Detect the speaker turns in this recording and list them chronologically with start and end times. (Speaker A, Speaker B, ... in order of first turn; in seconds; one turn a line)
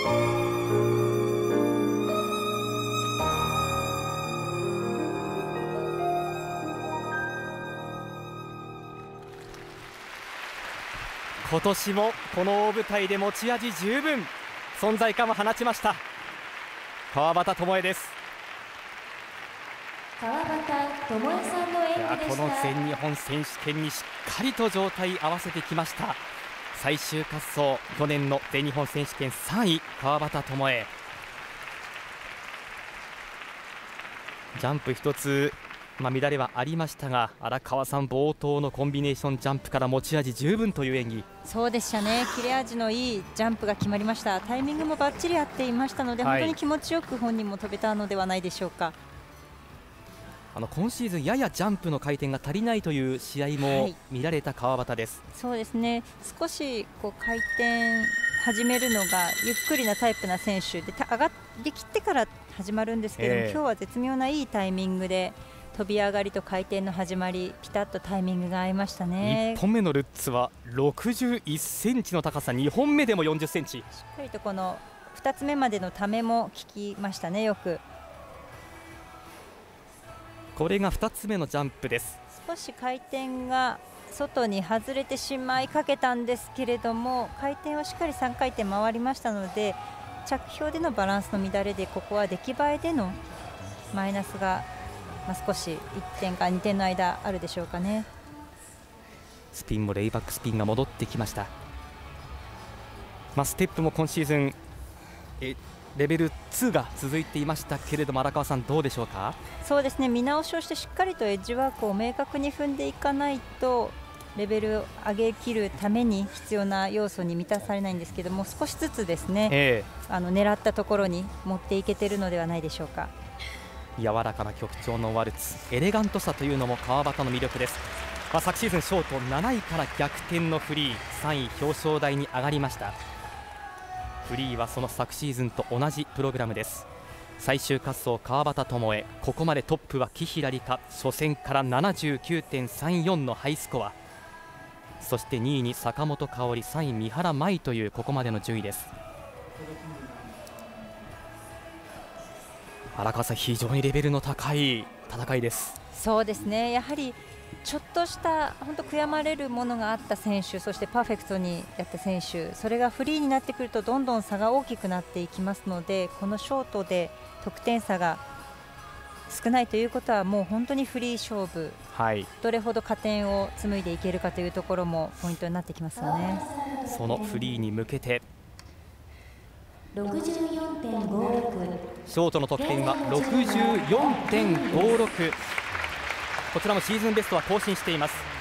Speaker A: 11.4-16.0
Speaker A: 17.1-18.2
Speaker B: 20.2-22.8
Speaker A: 22.0-26.2
Speaker A: 26.7-30.9
Speaker A: 34.6-41.2
Speaker C: 41.4-49.0
Speaker A: 46.2-46.6
Speaker A: 50.5-55.2
Speaker C: 53.6-54.0
Speaker C: 55.3-69.6
Speaker A: 63.2-63.6
Speaker A: 69.2-73.9
Speaker C: 73.9-77.8
Speaker A: 80.5-82.2
Speaker C: 82.3-93.2
Speaker C: 93.9-94.7
Speaker C: 95.3-98.1
Speaker A: 99.5-101.5
Speaker A: 103.3-104.6
Speaker A: 105.4-109.4
Speaker C: 109.6-123.1
Speaker A: 119.5-119.9
Speaker A: 124.0-133.0
Speaker A: 134.3-144.0
Speaker A: 145.0-148.9
Speaker A: 152.9-155.8
Speaker C: 155.9-168.2
Speaker C: 169.3-171.8
Speaker A: 171.9-172.3
Speaker C: 172.4-176.4
Speaker B: 176.0-177.4
Speaker A: 176.9-178.2
Speaker B: 179.9-181.8
Speaker A: 182.1-185.4
Speaker B: 182.6-185.0
Speaker A: 186.5-188.2